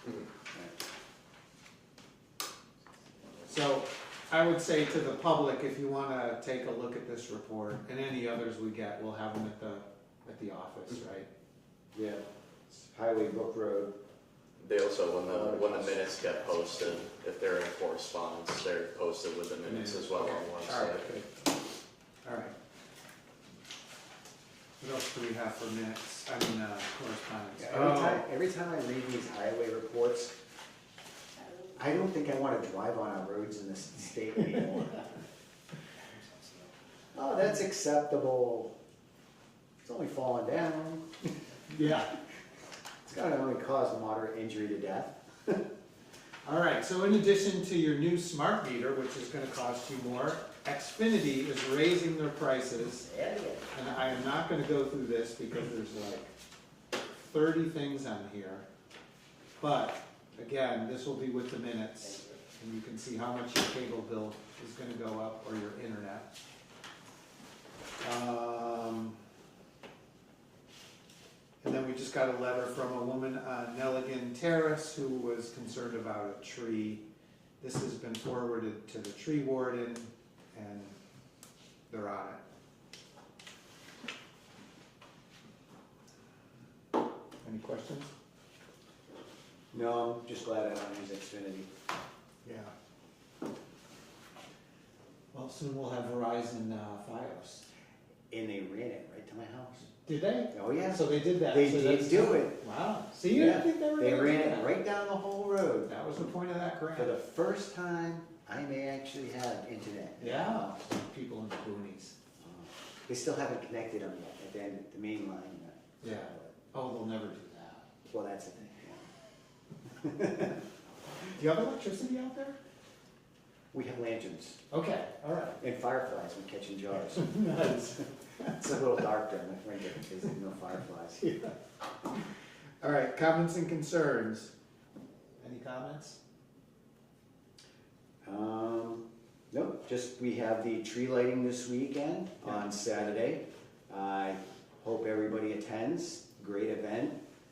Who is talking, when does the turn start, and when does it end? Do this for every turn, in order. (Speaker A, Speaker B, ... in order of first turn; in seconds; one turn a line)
Speaker A: 3.5-11.3
Speaker B: 11.9-13.9
Speaker C: 14.6-21.1
Speaker B: 15.3-16.1
Speaker A: 19.6-21.4
Speaker A: 22.2-22.5
Speaker A: 24.8-28.2
Speaker B: 27.6-30.3
Speaker B: 31.7-35.1
Speaker B: 37.1-38.7
Speaker B: 39.8-41.3
Speaker A: 41.7-42.1
Speaker B: 43.0-45.6
Speaker A: 46.4-53.1
Speaker B: 53.0-53.7
Speaker A: 53.7-56.3
Speaker A: 57.1-58.6
Speaker A: 59.6-66.3
Speaker A: 68.0-69.2
Speaker A: 71.6-77.0
Speaker A: 77.6-81.0
Speaker A: 81.9-82.4
Speaker A: 87.4-88.1
Speaker B: 89.7-91.7
Speaker A: 92.4-92.7
Speaker A: 95.3-97.7
Speaker B: 98.3-99.9
Speaker A: 99.9-104.7
Speaker B: 100.5-102.6
Speaker B: 103.3-105.9
Speaker A: 105.9-107.1
Speaker B: 106.9-110.8
Speaker A: 110.2-112.2
Speaker B: 112.4-116.5
Speaker A: 116.0-117.9
Speaker B: 118.1-119.1
Speaker B: 120.0-120.6
Speaker A: 121.2-122.6
Speaker B: 123.7-124.6
Speaker A: 124.7-125.6
Speaker B: 125.6-127.2
Speaker A: 127.0-128.5
Speaker B: 128.4-131.2
Speaker A: 131.2-131.5
Speaker A: 132.8-134.5
Speaker A: 135.4-136.2
Speaker B: 138.2-147.2